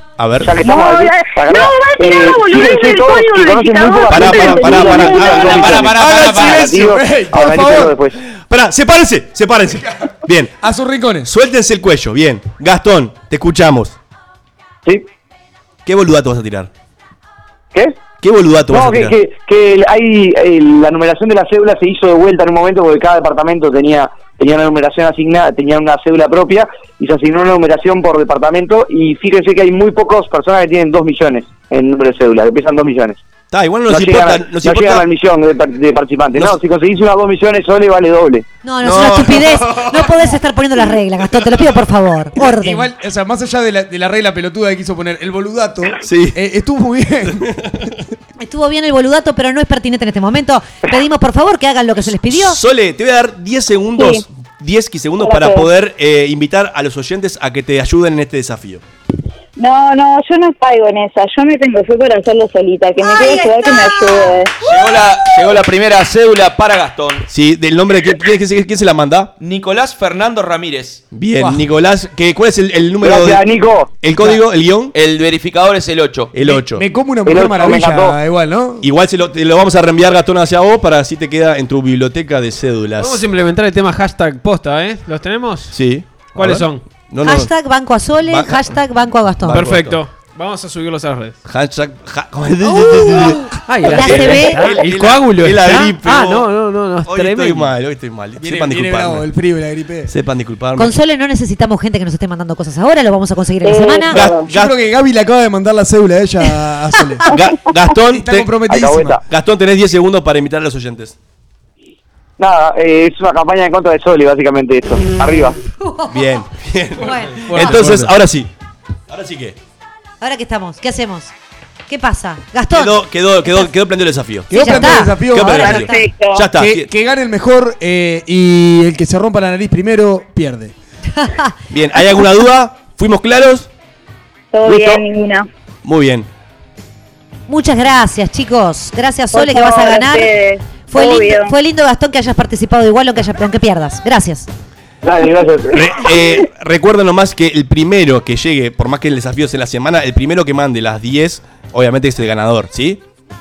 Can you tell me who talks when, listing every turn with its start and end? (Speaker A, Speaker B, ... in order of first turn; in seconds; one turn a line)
Speaker A: 0.2-0.5
Speaker B: 0.4-8.2
Speaker C: 0.6-5.6
Speaker A: 4.1-6.6
Speaker D: 5.0-8.0
Speaker E: 5.7-6.6
Speaker A: 8.3-10.6
Speaker D: 10.6-11.3
Speaker A: 11.3-14.0
Speaker A: 15.9-16.7
Speaker B: 17.7-18.0
Speaker A: 18.2-19.1
Speaker B: 18.7-33.2
Speaker A: 33.5-35.1
Speaker B: 33.9-38.5
Speaker F: 38.6-42.9
Speaker A: 38.8-39.9
Speaker D: 42.4-47.5
Speaker A: 46.0-46.4
Speaker A: 47.2-48.0
Speaker F: 48.4-52.6
Speaker A: 52.3-58.8
Speaker C: 54.0-54.2
Speaker C: 55.2-55.7
Speaker C: 59.6-64.5
Speaker E: 64.6-67.3
Speaker A: 67.3-69.3
Speaker E: 69.4-71.0
Speaker A: 71.1-73.4
Speaker D: 71.4-71.6
Speaker B: 73.0-74.0
Speaker A: 74.0-75.0
Speaker E: 74.9-76.3
Speaker A: 76.3-76.8
Speaker D: 76.4-78.9
Speaker B: 77.2-78.2
Speaker A: 78.8-83.2
Speaker G: 83.0-85.8
Speaker A: 85.7-87.5
Speaker G: 86.3-86.8
Speaker F: 87.2-89.7
Speaker A: 88.2-88.7
Speaker A: 89.5-90.0
Speaker G: 89.5-91.4
Speaker A: 91.5-96.5
Speaker F: 92.8-94.8
Speaker G: 93.7-97.7
Speaker A: 97.0-99.3
Speaker D: 98.4-100.1
Speaker A: 100.1-100.9
Speaker F: 100.8-104.2
Speaker C: 103.6-104.5
Speaker A: 104.1-104.8
Speaker D: 104.5-107.2
Speaker A: 107.3-108.6
Speaker D: 108.1-109.2
Speaker B: 108.7-109.2
Speaker A: 109.3-111.2
Speaker B: 112.4-115.6
Speaker F: 115.8-116.2
Speaker A: 116.1-118.5
Speaker F: 117.0-117.8
Speaker G: 117.1-118.2
Speaker A: 119.1-119.6
Speaker F: 120.2-121.3
Speaker F: 121.9-123.7
Speaker A: 122.7-126.9
Speaker D: 124.5-125.9
Speaker F: 124.5-125.9
Speaker C: 125.5-126.5
Speaker D: 126.6-130.7
Speaker F: 131.2-131.5
Speaker A: 131.7-133.7
Speaker C: 134.5-135.5
Speaker A: 134.6-135.1
Speaker A: 135.8-136.3
Speaker F: 137.5-140.3
Speaker C: 139.3-141.5
Speaker F: 140.9-144.5
Speaker B: 145.0-145.9
Speaker A: 145.7-153.0